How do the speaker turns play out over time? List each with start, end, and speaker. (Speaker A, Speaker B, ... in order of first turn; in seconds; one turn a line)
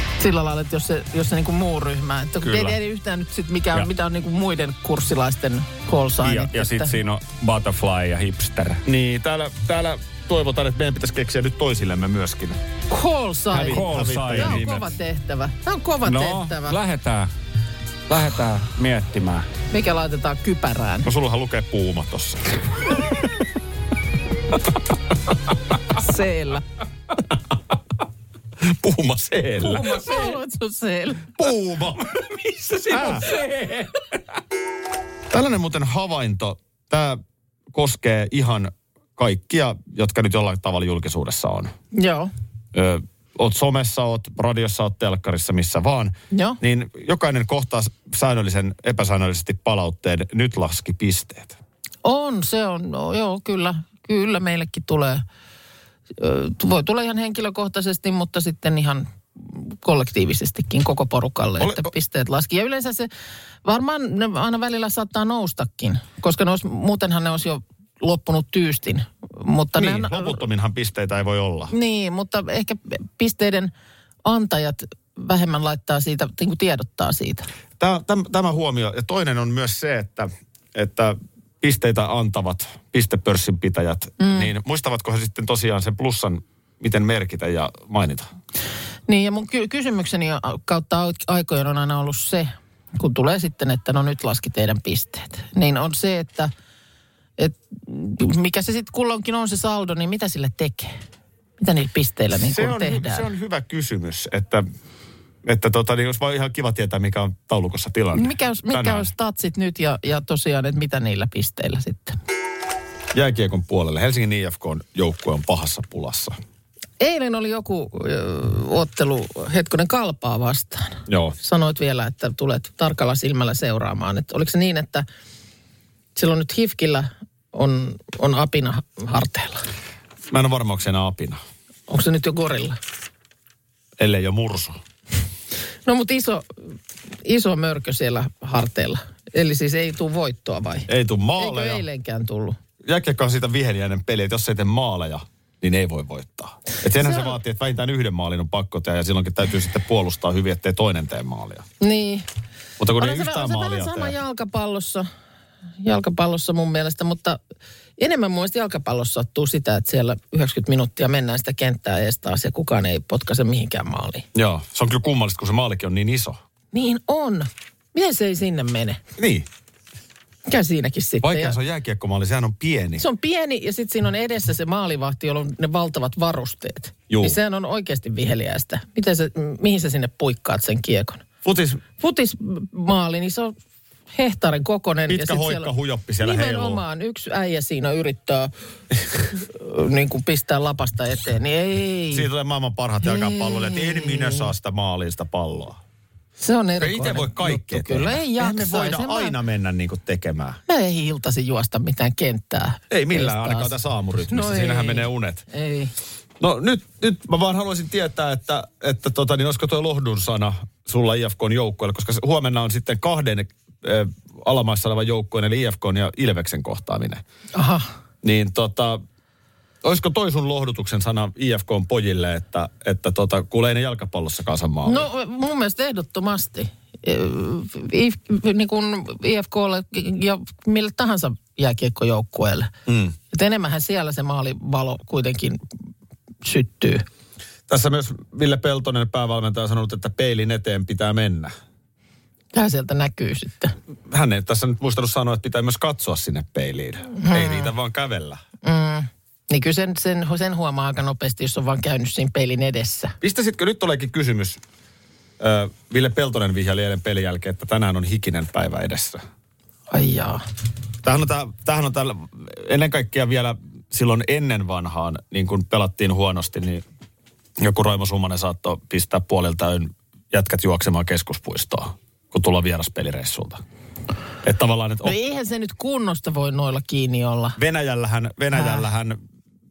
Speaker A: 0.2-7.0
Speaker B: 2.5-2.7
Speaker B: 6.2-8.8
Speaker C: 8.8-12.6
Speaker A: 12.9-16.8
Speaker C: 13.5-14.9
Speaker B: 13.6-14.8
Speaker B: 16.1-17.3
Speaker B: 18.1-19.5
Speaker A: 19.7-21.1
Speaker C: 21.0-22.6
Speaker A: 25.9-26.6
Speaker C: 28.6-29.9
Speaker A: 29.6-31.3
Speaker B: 29.8-30.4
Speaker C: 31.4-32.0
Speaker B: 32.1-34.0
Speaker C: 32.9-33.3
Speaker C: 35.3-37.2
Speaker C: 37.7-41.7
Speaker A: 41.9-42.3
Speaker C: 42.7-51.6
Speaker A: 46.3-46.6
Speaker A: 52.0-55.2
Speaker A: 56.2-63.1
Speaker C: 61.6-61.9
Speaker A: 63.6-70.4
Speaker C: 69.8-71.7
Speaker A: 71.7-73.7
Speaker A: 74.2-77.5
Speaker C: 77.8-88.3
Speaker A: 84.2-84.5
Speaker A: 89.1-96.5
Speaker A: 97.4-101.0
Speaker A: 101.6-103.3
Speaker C: 102.3-104.7
Speaker C: 105.4-109.1
Speaker A: 108.2-112.2
Speaker C: 113.1-116.4
Speaker A: 117.0-125.0
Speaker C: 121.1-121.3
Speaker A: 126.2-129.7
Speaker C: 130.3-131.4
Speaker A: 131.9-132.8
Speaker C: 134.0-134.8
Speaker A: 135.8-136.7
Speaker A: 137.2-142.6
Speaker C: 140.9-141.8
Speaker C: 142.8-151.7
Speaker A: 147.0-147.4
Speaker A: 151.8-152.2
Speaker C: 152.8-154.2
Speaker A: 153.0-155.1
Speaker A: 155.8-157.4
Speaker A: 158.0-164.3
Speaker C: 164.3-166.4
Speaker A: 166.7-169.0
Speaker C: 169.2-169.5
Speaker A: 170.5-171.6
Speaker C: 171.2-173.1
Speaker A: 173.0-181.2
Speaker C: 177.1-177.4
Speaker C: 181.4-181.8
Speaker A: 182.0-183.5
Speaker A: 184.1-188.5
Speaker C: 185.1-186.8
Speaker A: 189.3-192.3
Speaker C: 192.1-195.8
Speaker A: 193.0-194.5
Speaker A: 196.4-199.4
Speaker C: 196.8-200.6
Speaker A: 200.7-203.7
Speaker C: 202.9-205.4
Speaker A: 204.3-205.9
Speaker C: 206.4-217.2
Speaker A: 217.5-217.9
Speaker C: 218.2-219.0
Speaker C: 219.8-225.1
Speaker A: 224.8-232.7
Speaker C: 232.9-233.1
Speaker A: 233.3-235.7
Speaker A: 236.4-237.1
Speaker C: 237.7-241.5
Speaker A: 242.5-243.8
Speaker C: 244.1-248.4
Speaker A: 247.2-247.7
Speaker A: 248.6-253.2
Speaker C: 253.2-254.6
Speaker C: 255.4-259.2
Speaker A: 259.9-260.4
Speaker C: 261.0-266.8
Speaker C: 267.6-273.6
Speaker C: 274.4-275.2
Speaker A: 275.0-277.6
Speaker C: 277.6-279.2
Speaker A: 278.5-278.8